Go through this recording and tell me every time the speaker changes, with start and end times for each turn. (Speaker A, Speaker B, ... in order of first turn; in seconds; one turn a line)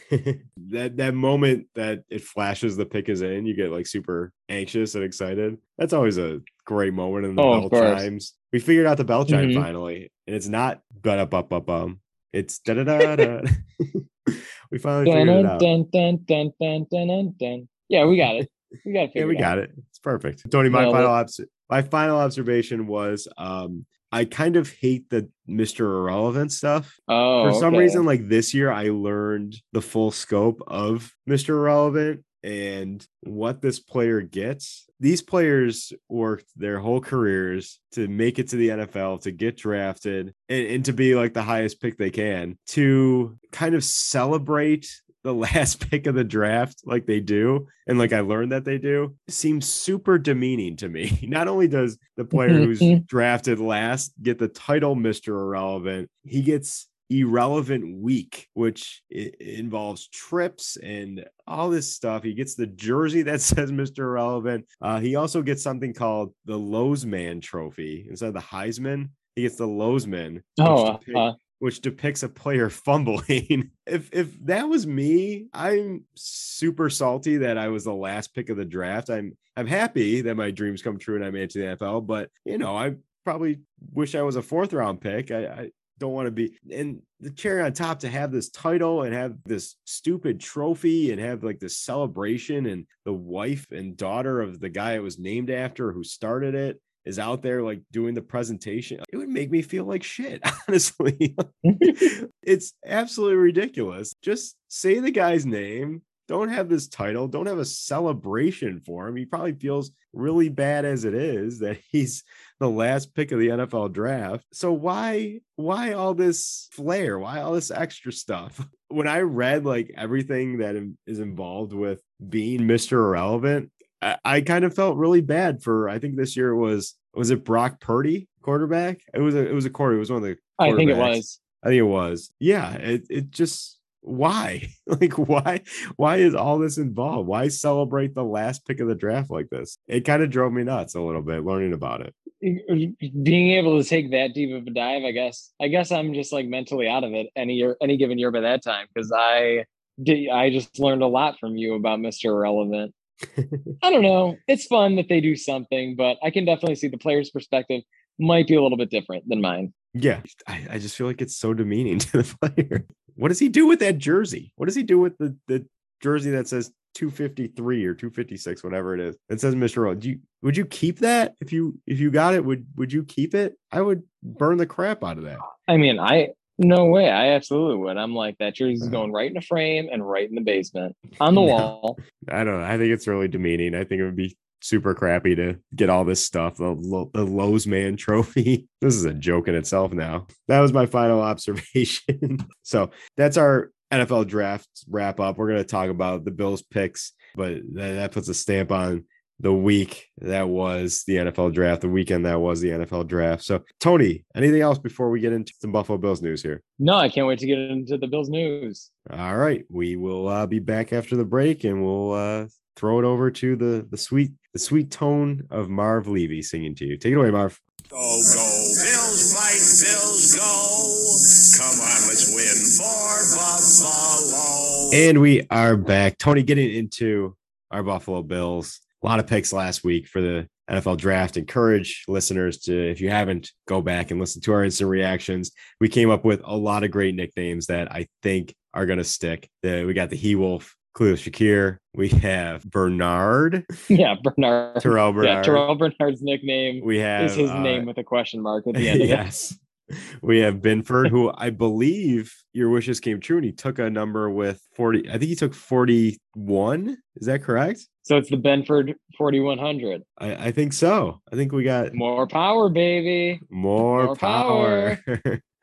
Speaker A: 0.1-15.7
Speaker B: 7.4-8.1
Speaker B: 9.3-9.7
Speaker B: 15.0-19.5
Speaker A: 19.1-142.1
Speaker B: 20.7-21.1
Speaker B: 27.1-28.0
Speaker B: 52.3-53.0
Speaker B: 70.6-71.3
Speaker B: 101.6-102.1
Speaker B: 130.6-131.4
Speaker B: 142.4-152.9
Speaker A: 153.3-153.6
Speaker B: 153.8-159.7
Speaker A: 159.9-175.4
Speaker B: 175.6-182.0
Speaker A: 181.3-206.6
Speaker B: 206.8-208.9
Speaker A: 209.1-217.6
Speaker C: 217.9-225.0
Speaker A: 224.9-243.7
Speaker B: 243.9-249.2
Speaker A: 244.8-245.7
Speaker A: 246.8-247.9
Speaker A: 248.7-257.9
Speaker B: 258.1-260.0
Speaker A: 260.2-261.9
Speaker B: 261.9-263.4
Speaker A: 263.5-265.4
Speaker B: 263.9-265.0